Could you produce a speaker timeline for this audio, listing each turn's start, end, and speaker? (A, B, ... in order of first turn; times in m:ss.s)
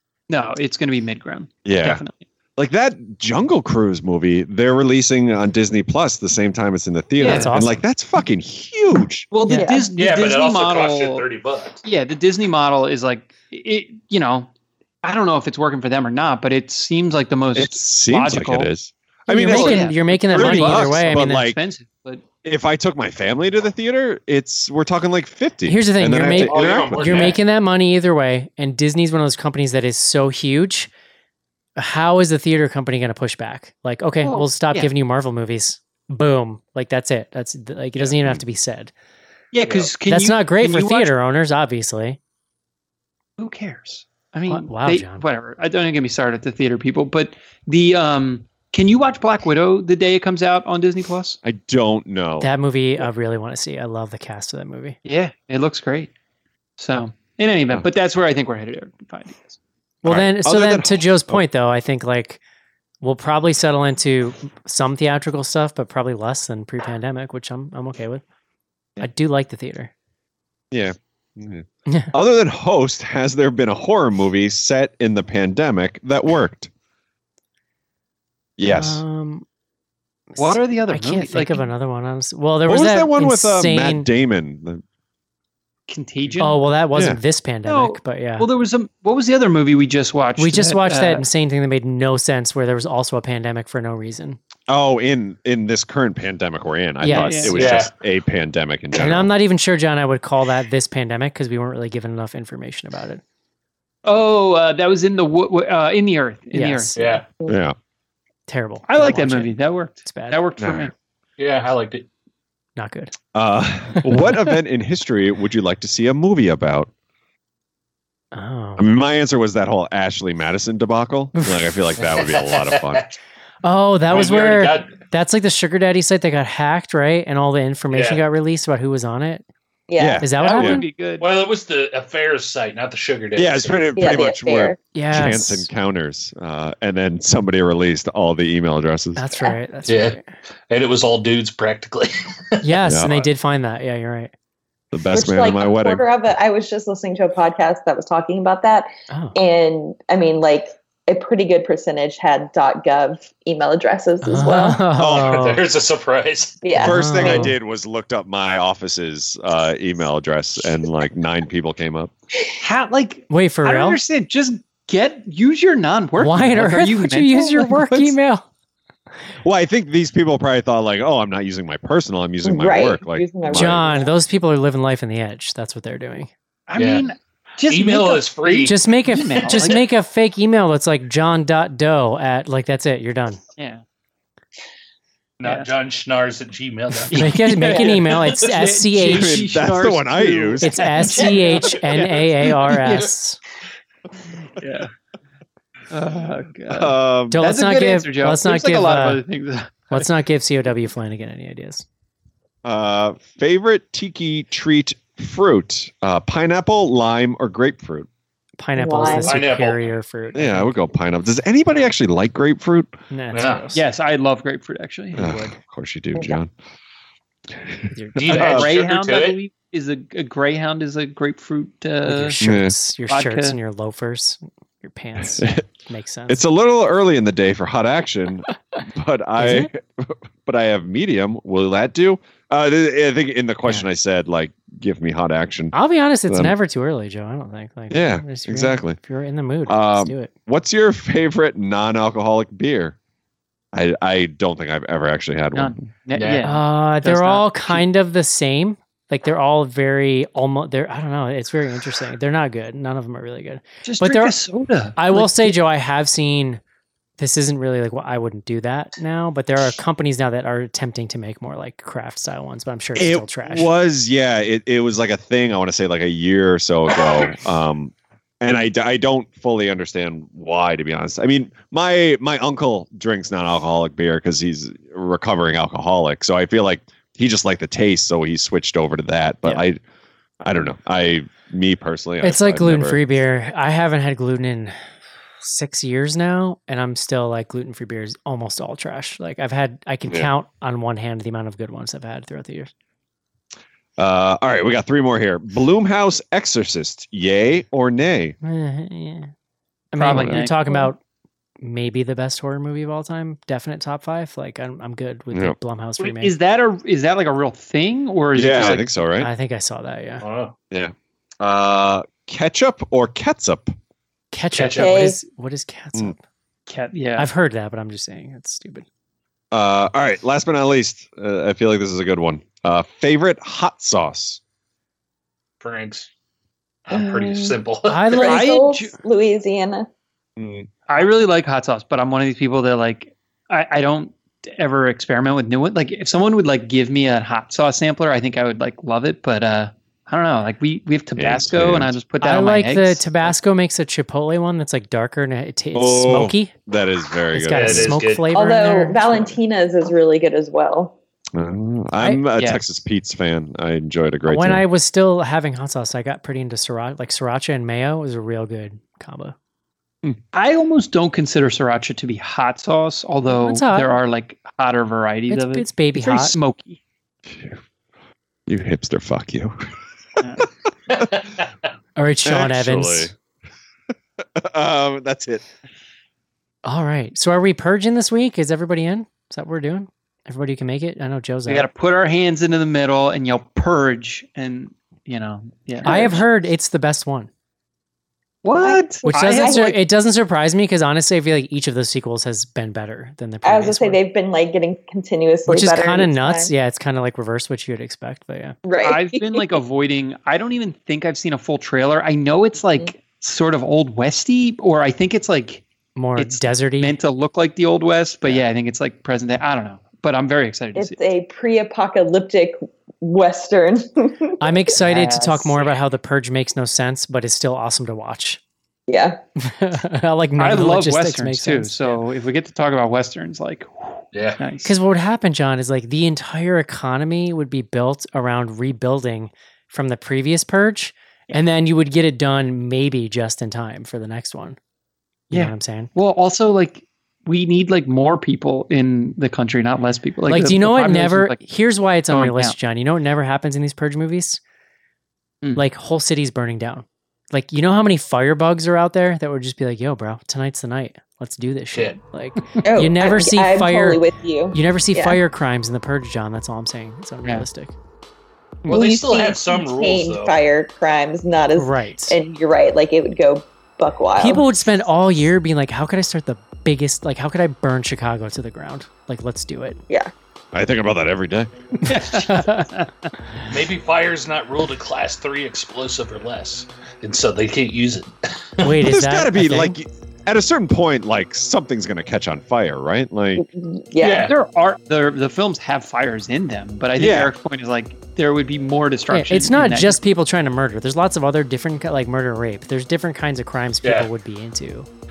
0:00.3-0:02.2 A
0:01.7-0:02.0 B
0:02.6-0:09.3 B
0:07.2-0:07.6 A
0:07.2-0:07.8 C
0:09.3-0:11.2 A
0:09.5-0:09.9 D
0:09.9-0:11.8 E
0:11.8-0:14.5 A
0:15.0-0:18.7 A
0:17.6-0:21.6 B
0:19.3-0:21.5 C
0:19.5-0:22.2 A
0:22.4-0:27.4 B
0:25.7-0:30.9 C
0:26.2-0:27.4 E
0:31.8-0:38.9 C
0:34.2-0:34.9 A
0:39.5-0:41.1 A
0:40.1-0:42.2 C
0:43.4-0:51.4 A
0:44.5-0:45.2 C
0:51.4-0:52.5 B
0:52.4-0:55.0 C
0:55.0-0:56.1 A
0:56.8-0:59.6 A
1:00.0-1:02.4 C
1:00.1-1:01.4 B
1:03.0-1:08.2 C
1:09.0-1:09.9 C
1:10.7-1:16.7 B
1:18.6-1:19.0 B
1:18.7-1:19.4 C
1:20.3-1:24.1 C
1:20.4-1:21.6 A
1:22.7-1:24.8 B
1:25.9-1:26.6 A
1:26.4-1:28.5 C
1:27.7-1:31.3 A
1:30.4-1:34.4 C
1:34.7-1:39.3 B
1:37.0-1:37.7 C
1:37.1-1:37.6 A
1:37.6-1:37.9 E
1:39.0-1:43.2 C
1:44.0-1:47.0 A
1:46.5-1:47.2 C
1:47.0-1:47.3 E
1:47.5-1:47.8 B
1:48.5-1:50.4 C
1:48.9-1:50.9 A
1:50.6-1:50.9 B
1:51.4-1:52.1 E
1:52.8-1:53.1 C
1:53.3-1:56.9 B
1:53.9-1:54.5 C
1:58.3-1:58.9 C
1:58.8-2:03.0 B
2:01.4-2:01.7 C
2:02.1-2:03.1 E
2:03.6-2:09.4 C
2:04.1-2:05.0 E
2:07.9-2:08.2 E
2:09.9-2:10.2 D
2:10.0-2:10.8 B
2:10.2-2:10.9 C
2:10.4-2:11.2 A
2:11.2-2:14.0 E
2:13.4-2:19.2 B
2:14.0-2:14.8 D
2:14.9-2:15.7 C
2:19.2-2:20.3 C
2:19.9-2:20.2 E
2:20.7-2:22.1 E
2:22.6-2:24.3 C
2:22.9-2:23.3 B
2:24.9-2:26.0 B
2:25.1-2:34.8 D
2:29.1-2:29.4 C
2:34.2-2:35.6 C
2:35.0-2:35.6 B
2:35.2-2:36.6 E
2:36.6-2:37.5 D
2:36.8-2:37.6 C
2:36.8-2:42.1 B
2:42.6-2:48.2 A
2:43.3-2:44.0 C
2:46.2-2:48.5 C
2:49.4-2:53.9 B
2:52.4-2:54.1 D
2:53.5-2:56.3 C
2:56.7-2:59.8 A
2:56.8-2:57.1 E
2:57.7-2:58.8 E
2:58.6-3:03.4 C
3:03.6-3:03.8 A
3:05.4-3:07.3 E
3:05.4-3:05.7 A
3:07.1-3:13.1 A
3:07.1-3:09.4 C
3:07.7-3:08.0 D
3:09.1-3:11.0 B
3:10.6-3:13.4 C
3:11.1-3:11.7 D
3:14.5-3:14.9 A
3:15.9-3:20.1 A
3:16.7-3:17.4 B
3:17.3-3:19.2 C
3:19.9-3:21.8 C
3:22.6-3:28.1 B
3:28.6-3:30.8 C
3:28.8-3:29.4 D
3:29.1-3:29.8 E
3:30.4-3:33.0 B
3:33.1-3:33.8 C
3:33.3-3:33.6 E
3:33.7-3:35.3 A
3:35.2-3:36.5 B
3:35.2-3:35.5 C
3:37.6-3:38.7 B
3:37.9-3:38.2 C
3:38.2-3:39.4 E
3:38.3-3:42.4 A
3:42.0-3:46.4 C
3:42.4-3:42.7 B
3:43.1-3:43.6 A
3:45.4-3:45.6 B
3:46.3-3:55.8 B
3:49.4-3:49.7 C
3:55.7-4:00.3 C
3:56.3-3:56.5 B
3:57.9-3:59.0 B
3:59.7-4:03.0 B
4:03.7-4:05.8 B
4:05.5-4:07.8 A
4:06.2-4:06.6 E
4:06.4-4:14.4 C
4:13.8-4:15.6 A
4:15.0-4:16.6 C
4:17.2-4:23.7 C
4:23.0-4:39.8 B
4:40.4-4:43.1 B
4:42.2-4:44.8 C
4:45.4-4:52.7 C
4:54.0-4:58.4 B
4:58.4-4:59.3 C
4:59.9-5:01.0 C
5:00.0-5:00.9 A
5:00.1-5:00.5 B
5:01.6-5:06.3 C
5:06.0-5:08.8 A
5:08.3-5:09.3 B
5:09.2-5:10.2 C
5:10.2-5:10.6 E
5:10.7-5:13.8 B
5:14.3-5:16.2 C
5:14.5-5:15.0 E
5:14.8-5:15.2 D
5:16.7-5:17.3 A
5:17.2-5:18.8 C
5:19.5-5:24.4 B
5:25.6-5:26.1 E
5:26.9-5:28.2 E
5:26.9-5:27.6 D
5:27.9-5:28.4 C
5:28.2-5:29.9 D
5:28.2-5:28.9 A
5:30.4-5:30.7 B
5:30.9-5:43.4 A
5:41.2-5:42.0 B
5:42.2-5:46.5 C
5:45.8-5:48.0 B
5:47.3-5:49.4 C
5:47.5-5:48.3 E
5:48.3-5:51.0 D
5:51.3-5:54.6 B
5:52.0-5:52.6 A
5:54.3-5:59.4 C
6:00.3-6:06.8 A
6:03.3-6:03.9 C
6:05.3-6:06.4 C
6:07.3-6:07.6 B
6:08.5-6:09.7 B
6:10.2-6:10.5 A
6:10.9-6:11.5 E
6:12.0-6:13.1 C
6:12.2-6:13.1 B
6:14.2-6:15.4 B
6:16.6-6:21.7 C
6:21.5-6:26.2 A
6:25.8-6:27.3 C
6:28.4-6:29.8 A
6:28.6-6:29.8 D
6:29.1-6:34.0 C
6:33.4-6:36.5 D
6:35.5-6:38.6 C
6:38.6-6:39.4 D
6:38.8-6:45.6 A
6:46.0-6:46.9 C
6:46.2-6:51.0 A
6:50.8-6:54.4 D
6:54.4-6:58.4 C
6:54.8-6:55.8 A
6:58.9-6:59.2 D
6:59.4-7:01.9 C
7:00.4-7:04.8 A
7:04.1-7:04.4 E
7:04.6-7:14.6 C
7:15.3-7:15.9 C
7:15.3-7:21.4 A
7:20.3-7:24.4 C
7:22.1-7:22.6 A
7:25.6-7:34.0 C
7:31.7-7:32.0 E
7:32.6-7:35.2 D
7:34.5-7:37.7 C
7:38.7-7:40.4 E
7:38.7-7:44.5 D
7:41.6-7:42.2 C
7:44.2-7:49.8 C
7:50.5-7:51.5 B
7:51.8-7:52.9 A
7:51.9-7:52.7 C
7:53.5-7:58.6 E
7:58.6-7:59.8 C
7:58.8-8:03.4 B
8:03.4-8:04.3 D
8:04.0-8:04.3 E
8:04.3-8:10.0 A
8:07.0-8:07.3 B
8:09.1-8:14.9 C
8:13.8-8:14.1 E